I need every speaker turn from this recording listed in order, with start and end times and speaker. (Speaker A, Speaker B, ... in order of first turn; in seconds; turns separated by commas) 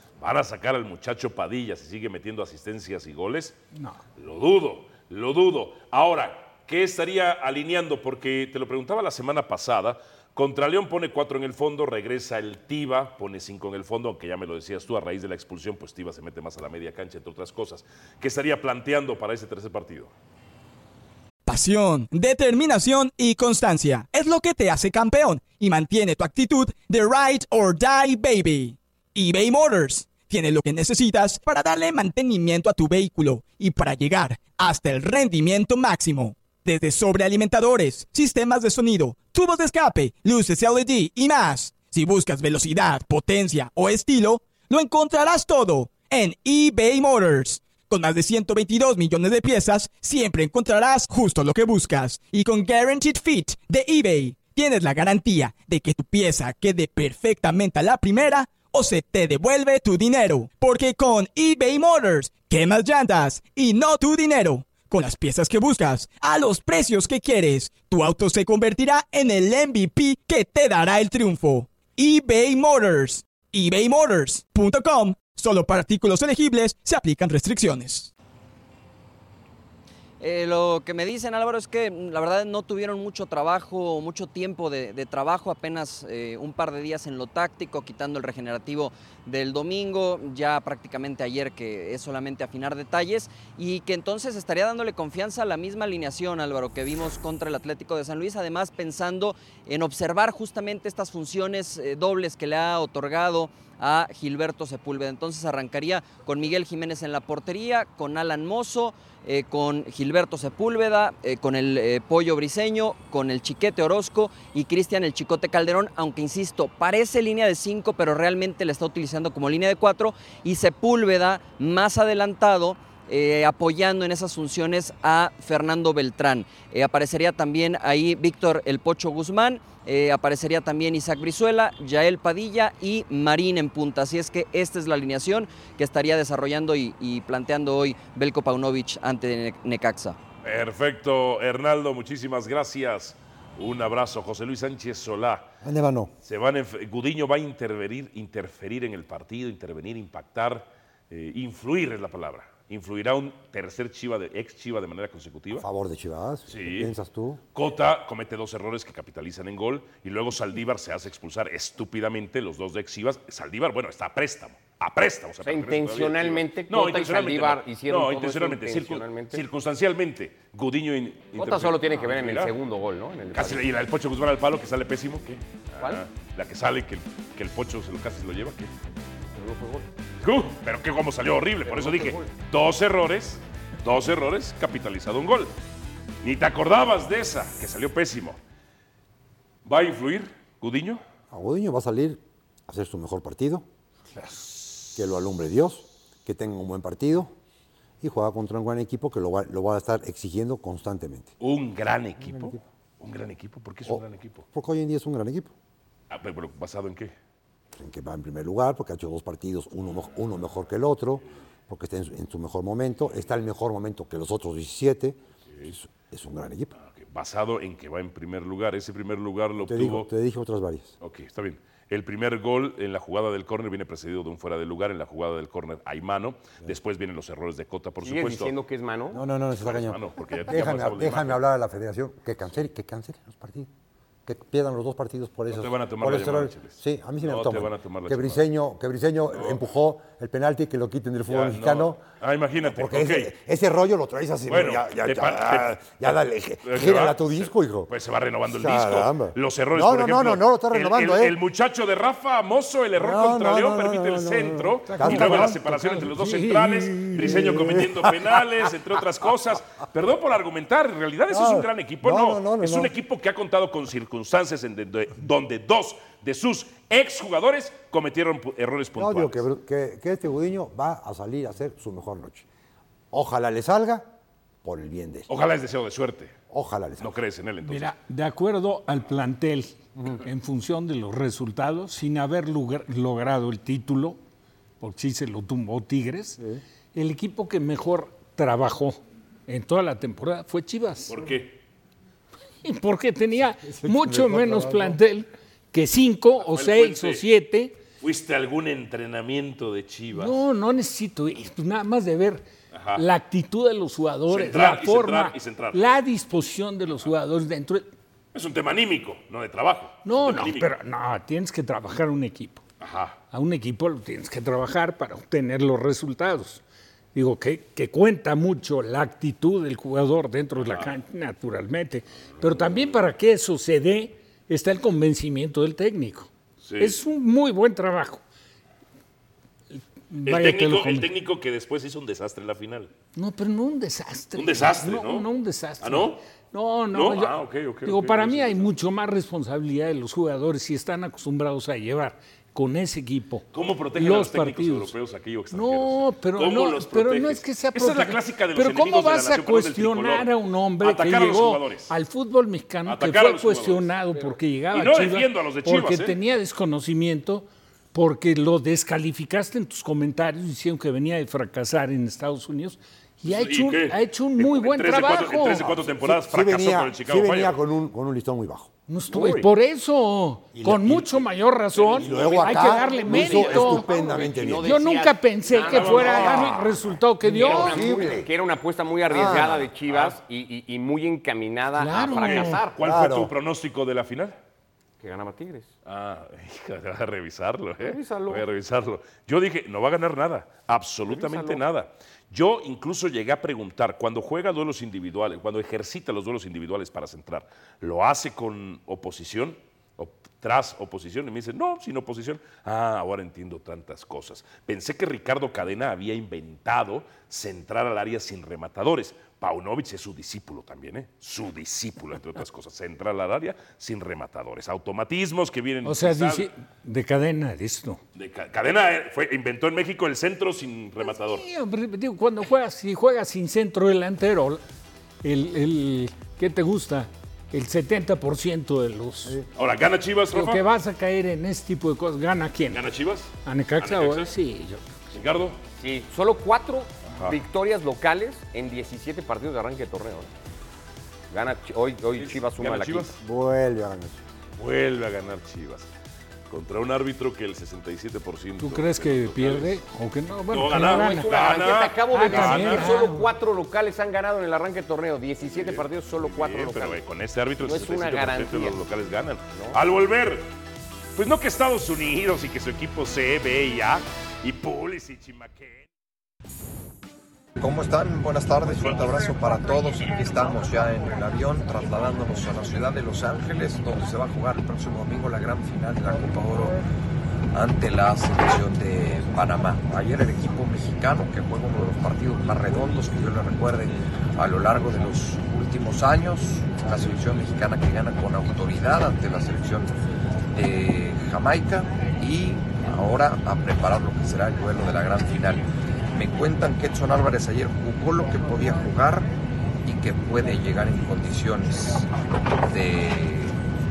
Speaker A: 0.2-3.5, Speaker A: 4.2-20.1, Speaker B: 21.4-78.1, Speaker C: 80.2-140.2, Speaker A: 140.4-145.5, Speaker D: 145.6-146.1, Speaker A: 146.2-155.7, Speaker D: 155.5-157.4, Speaker A: 156.5-156.9, Speaker A: 157.5-172.5, Speaker E: 165.4-169.4, Speaker E: 171.3-173.6, Speaker A: 173.3-178.7, Speaker E: 179.3-179.8, Speaker A: 180.2-185.5, Speaker E: 181.7-182.2, Speaker A: 186.2-188.4, Speaker A: 189.6-191.0, Speaker D: 191.3-193.7, Speaker D: 194.9-197.3, Speaker D: 198.0-201.3, Speaker A: 201.4-204.4, Speaker D: 202.3-202.6, Speaker D: 203.8-205.5, Speaker A: 206.1-207.1, Speaker D: 207.8-216.7, Speaker A: 216.8-220.1, Speaker D: 219.6-220.9, Speaker A: 221.0-228.5, Speaker E: 228.0-229.2, Speaker D: 229.1-233.7, Speaker A: 229.6-231.4, Speaker D: 234.2-242.0, Speaker A: 235.5-238.4, Speaker A: 239.3-239.6, Speaker A: 241.3-243.3, Speaker D: 242.6-247.9, Speaker A: 244.5-269.4, Speaker D: 248.5-251.4, Speaker D: 252.9-255.6, Speaker F: 254.9-257.6, Speaker D: 257.1-258.4, Speaker D: 261.3-262.9, Speaker D: 268.9-272.5, Speaker D: 273.1-274.1, Speaker D: 274.6-275.3, Speaker A: 275.3-276.3, Speaker D: 276.5-277.2, Speaker A: 277.0-277.9, Speaker F: 277.6-284.2, Speaker F: 284.8-286.4, Speaker F: 286.9-291.1, Speaker A: 291.1-291.6, Speaker F: 292.6-297.8, Speaker D: 293.6-295.0, Speaker A: 296.4-297.2, Speaker A: 298.0-300.4, Speaker F: 300.1-307.9, Speaker A: 302.7-303.0, Speaker A: 304.3-305.8, Speaker A: 308.3-310.7, Speaker F: 310.0-312.6, Speaker A: 312.8-313.2, Speaker F: 313.3-316.6, Speaker F: 317.1-328.2, Speaker A: 320.6-320.9, Speaker A: 322.5-322.9, Speaker A: 326.6-327.0, Speaker F: 329.8-331.1, Speaker A: 330.2-332.9, Speaker F: 333.1-344.9, Speaker A: 334.3-335.3, Speaker A: 335.8-336.2, Speaker A: 336.9-338.7, Speaker A: 343.5-351.9, Speaker F: 345.5-365.7, Speaker A: 352.9-353.9, Speaker A: 354.7-356.1, Speaker A: 363.2-367.6, Speaker D: 365.9-368.7, Speaker F: 368.9-373.9, Speaker E: 369.1-369.4, Speaker D: 370.5-371.2, Speaker E: 371.8-376.7, Speaker D: 371.9-374.7, Speaker F: 374.6-377.8, Speaker A: 375.6-376.7, Speaker D: 377.2-378.3, Speaker E: 377.2-382.8, Speaker D: 379.1-379.6, Speaker A: 379.2-380.2, Speaker F: 381.7-382.6, Speaker A: 382.2-384.4, Speaker D: 382.8-383.3, Speaker E: 385.0-385.7, Speaker A: 385.8-416.5, Speaker E: 387.8-388.4, Speaker E: 391.1-391.6, Speaker F: 415.8-418.0, Speaker A: 418.1-421.4, Speaker F: 421.0-424.6, Speaker F: 425.2-429.4, Speaker A: 429.6-430.6, Speaker F: 430.3-432.8, Speaker A: 432.7-434.3, Speaker F: 433.4-434.9, Speaker A: 435.1-435.6, Speaker E: 435.8-440.3, Speaker A: 437.1-437.4, Speaker E: 441.3-443.1, Speaker A: 442.1-443.2, Speaker D: 443.2-444.2, Speaker A: 444.6-445.9, Speaker A: 446.5-449.8, Speaker F: 448.6-451.3, Speaker A: 450.5-453.0, Speaker E: 450.7-457.0, Speaker F: 452.1-453.3, Speaker A: 455.4-460.5, Speaker E: 457.6-458.8, Speaker A: 461.1-465.9, Speaker G: 467.6-476.8, Speaker G: 477.5-489.9, Speaker G: 490.5-499.3, Speaker G: 499.8-502.1, Speaker G: 502.6-503.6